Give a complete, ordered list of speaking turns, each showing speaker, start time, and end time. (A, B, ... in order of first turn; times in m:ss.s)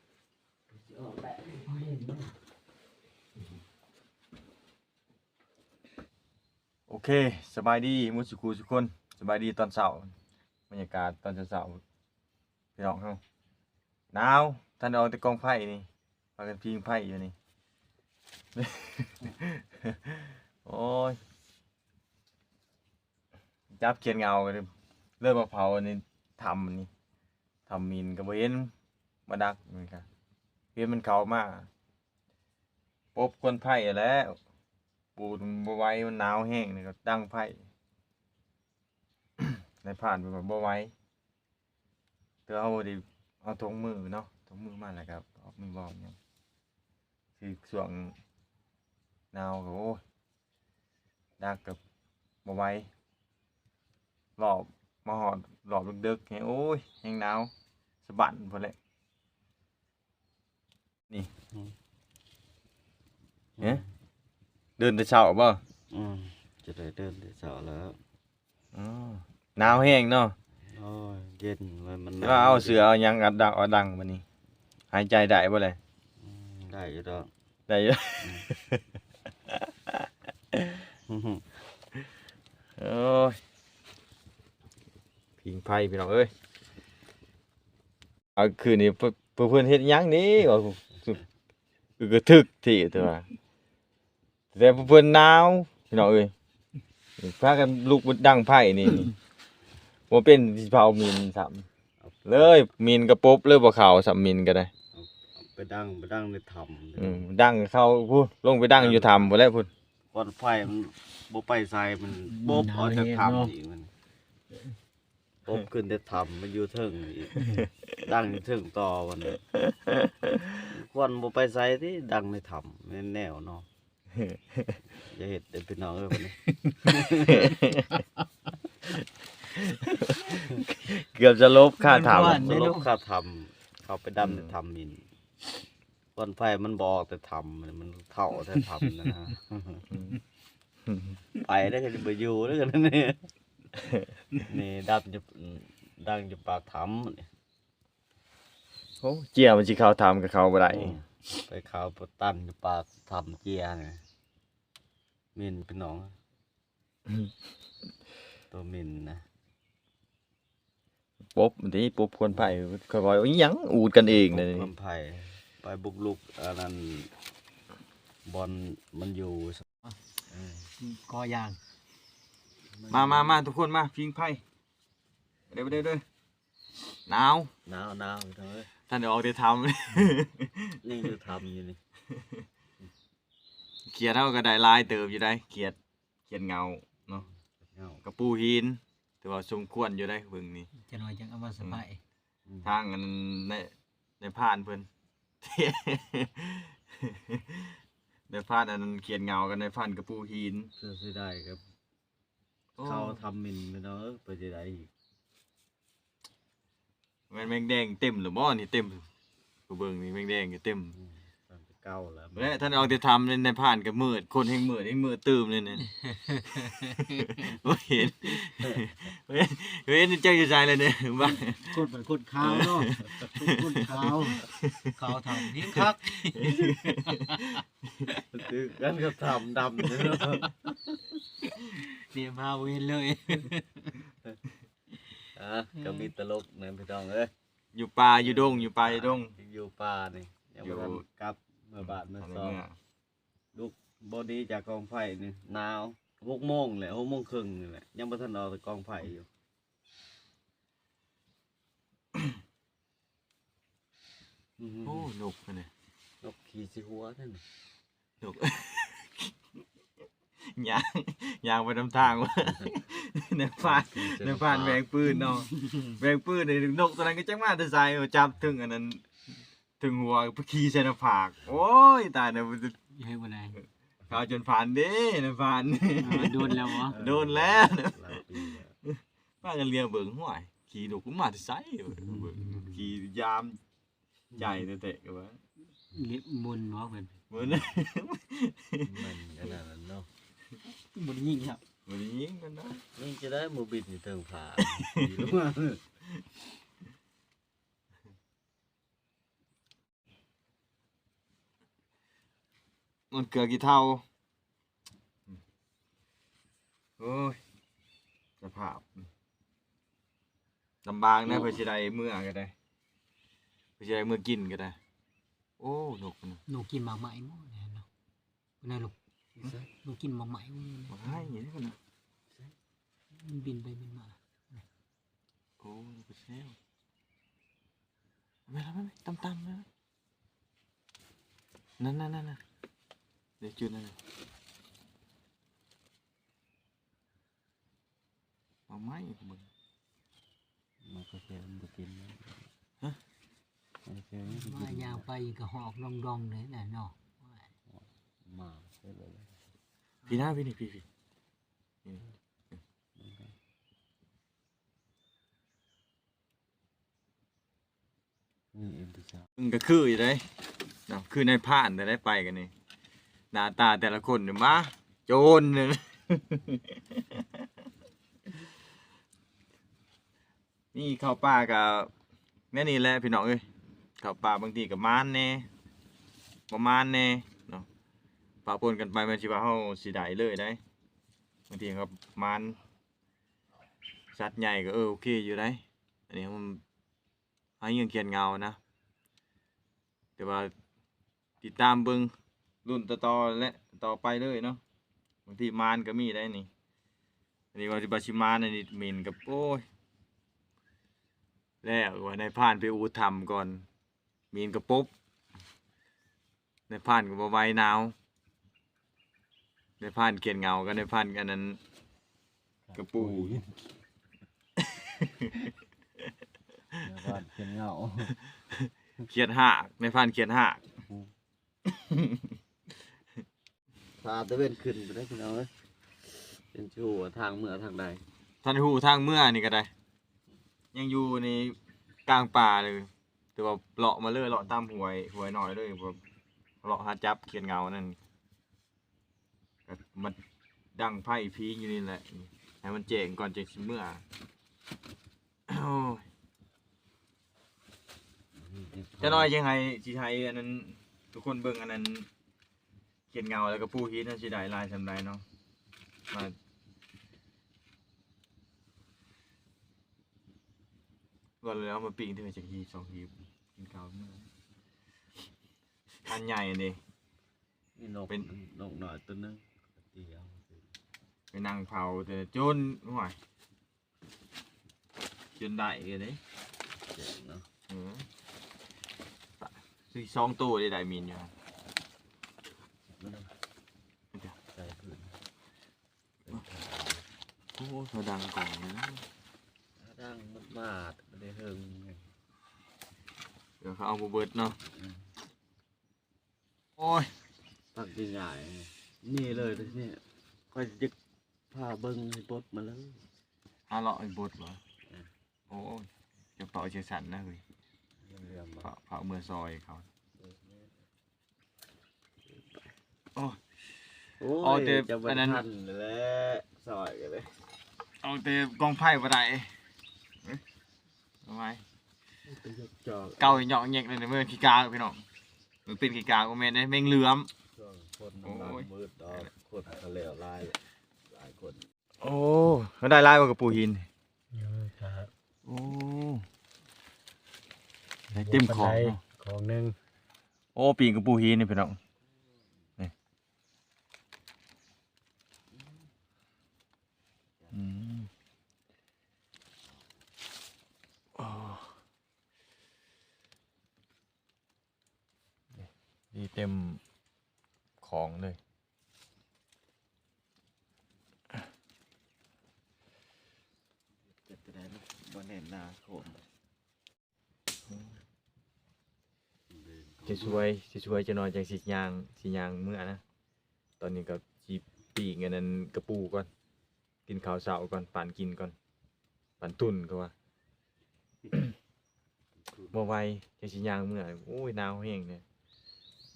0:00.7-0:02.3 A
0:06.9-0:10.1 B
0:10.7-0:11.8 B
0:12.8-0:13.2 B
0:14.1-0:17.3 B
0:18.5-0:21.2 B
0:23.7-0:26.9 B
0:27.7-0:28.7 B
0:29.3-0:30.0 B
0:30.7-0:31.7 B
0:33.1-0:34.4 B
0:35.2-0:37.6 B
0:39.4-0:40.9 B
0:42.5-0:46.2 B
0:47.4-0:48.2 B
0:49.3-0:50.0 B
0:51.4-0:51.8 B
0:52.4-0:52.9 B
0:54.4-0:57.5 B
0:58.0-0:58.7 B
1:04.8-1:05.6 B
1:05.9-1:08.0 A
1:08.7-1:10.3 B
1:10.6-1:12.8 A
1:12.2-1:14.2 B
1:14.9-1:15.8 B
1:16.2-1:17.3 A
1:17.7-1:18.8 B
1:19.5-1:20.8 B
1:21.1-1:21.6 A
1:22.8-1:23.4 B
1:25.4-1:26.3 B
1:28.4-1:31.2 B
1:32.0-1:33.2 B
1:34.5-1:36.3 B
1:37.2-1:39.2 B
1:40.1-1:41.7 B
1:42.2-1:44.7 B
1:44.9-1:47.2 A
1:47.0-1:49.7 B
1:48.7-1:49.3 A
1:50.1-1:53.9 A
1:52.2-1:53.5 C
1:55.4-1:59.4 A
1:57.4-1:57.7 B
1:59.8-2:00.5 B
2:00.6-2:03.7 A
2:04.9-2:07.6 A
2:07.3-2:07.9 B
2:09.4-2:12.6 B
2:11.8-2:12.9 C
2:12.2-2:15.0 A
2:14.2-2:14.5 B
2:16.1-2:19.8 A
2:19.9-2:20.2 B
2:20.9-2:21.2 B
2:21.3-2:23.3 A
2:24.4-2:27.3 A
2:29.0-2:31.0 B
2:30.7-2:34.0 A
2:35.3-2:36.1 A
2:38.5-2:39.2 A
2:41.3-2:44.7 B
2:44.1-2:47.1 A
2:48.2-2:49.7 A
2:50.3-2:50.7 A
2:50.8-2:51.6 C
2:52.7-2:53.4 A
2:52.9-2:54.4 B
2:55.5-2:56.0 B
2:57.1-2:57.5 B
2:57.6-2:58.7 A
2:58.9-3:00.8 B
3:00.8-3:01.8 A
3:03.9-3:07.2 B
3:07.1-3:08.0 A
3:08.0-3:10.7 B
3:10.7-3:12.0 C
3:12.5-3:12.7 A
3:12.6-3:14.9 B
3:15.4-3:17.8 B
3:18.3-3:20.7 B
3:20.8-3:21.6 A
3:22.8-3:23.2 B
3:22.8-3:24.9 A
3:27.3-3:29.1 B
3:29.7-3:31.0 B
3:30.9-3:32.7 A
3:32.4-3:35.9 B
3:36.1-3:37.3 C
3:37.1-3:41.9 B
3:41.7-3:42.9 C
3:42.4-3:44.8 B
3:43.1-3:44.4 A
3:43.4-3:44.4 C
3:44.9-3:47.6 C
3:45.0-3:45.8 A
3:45.6-3:47.6 B
3:48.3-3:51.0 A
3:51.5-3:54.0 C
3:55.3-3:57.3 A
3:55.8-3:56.1 C
3:57.7-3:59.3 B
3:58.1-4:02.6 A
4:00.6-4:01.0 B
4:01.8-4:02.8 B
4:03.5-4:09.3 A
4:14.6-4:15.1 A
4:14.8-4:15.7 B
4:16.2-4:17.4 A
4:18.2-4:19.3 B
4:20.5-4:29.0 B
4:22.4-4:22.7 A
4:23.6-4:25.8 A
4:29.8-4:32.8 B
4:32.9-4:33.6 C
4:34.1-4:38.2 B
4:36.0-4:37.0 C
4:36.8-4:38.7 A
4:38.8-4:43.6 B
4:41.9-4:42.4 A
4:42.4-4:42.8 C
4:44.4-4:45.4 B
4:45.9-4:47.1 C
4:47.3-4:49.1 B
4:48.8-4:50.1 A
4:50.6-4:51.6 C
4:51.8-4:52.8 B
4:52.9-4:55.8 A
4:54.6-4:55.3 B
5:03.1-5:04.0 B
5:07.0-5:07.4 B
5:08.4-5:09.1 B
5:10.8-5:12.5 B
5:13.8-5:14.8 B
5:15.6-5:16.4 B
5:16.5-5:17.8 C
5:18.6-5:21.3 C
5:19.4-5:19.7 A
5:20.9-5:21.8 B
5:23.1-5:24.6 C
5:25.6-5:26.6 B
5:28.5-5:29.7 B
5:31.8-5:32.4 B
5:33.4-5:34.0 B
5:38.7-5:39.5 B
5:40.8-5:42.5 A
5:43.8-5:45.1 A
5:44.3-5:47.5 C
5:47.7-5:49.3 A
5:50.0-5:50.8 B
5:53.0-5:53.3 A
5:58.5-5:59.3 A
5:59.4-6:00.3 B
6:00.9-6:02.5 B
6:03.3-6:07.4 B
6:10.7-6:11.9 B
6:12.5-6:13.4 B
6:14.0-6:15.5 B
6:16.5-6:17.7 B
6:18.4-6:20.6 B
6:21.5-6:22.6 B
6:24.1-6:26.6 B
6:27.6-6:28.6 B
6:30.2-6:30.5 B
6:31.4-6:32.1 B
6:32.6-6:34.6 B
6:35.2-6:36.5 B
6:37.5-6:39.6 B
6:41.6-6:43.7 B
6:44.3-6:44.9 B
6:46.7-6:47.9 B
6:49.8-6:51.6 B
6:52.7-6:53.5 A
6:52.7-6:53.4 B
6:54.7-6:55.5 B
6:56.8-6:58.2 A
6:58.3-7:00.6 B
7:00.8-7:01.1 A
7:01.7-7:02.4 B
7:04.0-7:05.5 A
7:06.0-7:08.0 A
7:08.4-7:09.7 B
7:10.7-7:16.0 B
7:16.6-7:18.0 B
7:19.7-7:20.2 B
7:20.7-7:24.0 B
7:25.5-7:26.0 B
7:28.3-7:29.3 A
7:29.0-7:32.1 B
7:33.1-7:35.2 B
7:36.1-7:36.3 B
7:41.4-7:44.3 B
7:46.0-7:46.8 B
7:47.8-7:50.7 A
7:51.3-7:53.2 B
7:55.3-7:56.2 B
7:56.9-7:57.4 A
7:57.7-7:58.1 B
7:59.4-8:01.3 B
8:02.9-8:03.3 A
8:04.5-8:05.2 A
8:06.2-8:07.0 A
8:07.5-8:09.0 B
8:09.8-8:12.0 A
8:13.6-8:14.6 B
8:14.6-8:15.1 A
8:16.8-8:17.1 B
8:17.7-8:20.9 A
8:21.5-8:23.0 A
8:23.7-8:24.6 B
8:25.5-8:27.4 B
8:28.0-8:28.7 A
8:28.6-8:29.8 B
8:30.2-8:30.7 A
8:32.3-8:32.7 A
8:34.2-8:37.4 A
8:34.2-8:35.4 B
8:38.0-8:39.6 B
8:41.2-8:41.6 B
8:42.3-8:43.4 A
8:43.2-8:45.0 B
8:45.7-8:47.3 B
8:47.6-8:51.6 A
8:48.2-8:49.3 B
8:52.0-8:53.9 B
8:54.3-8:55.1 C
8:55.4-8:56.2 B
8:58.1-8:59.0 B
8:58.2-8:59.7 C
9:00.5-9:01.8 B
9:07.5-9:08.1 B
9:11.2-9:11.7 B
9:15.6-9:16.8 B
9:17.8-9:18.4 B
9:24.2-9:26.2 A
9:27.7-9:28.0 B
9:29.5-9:30.4 A
9:30.0-9:33.0 B
9:33.8-9:36.3 B
9:37.0-9:38.5 B
9:39.4-9:40.1 B
9:42.7-9:45.2 B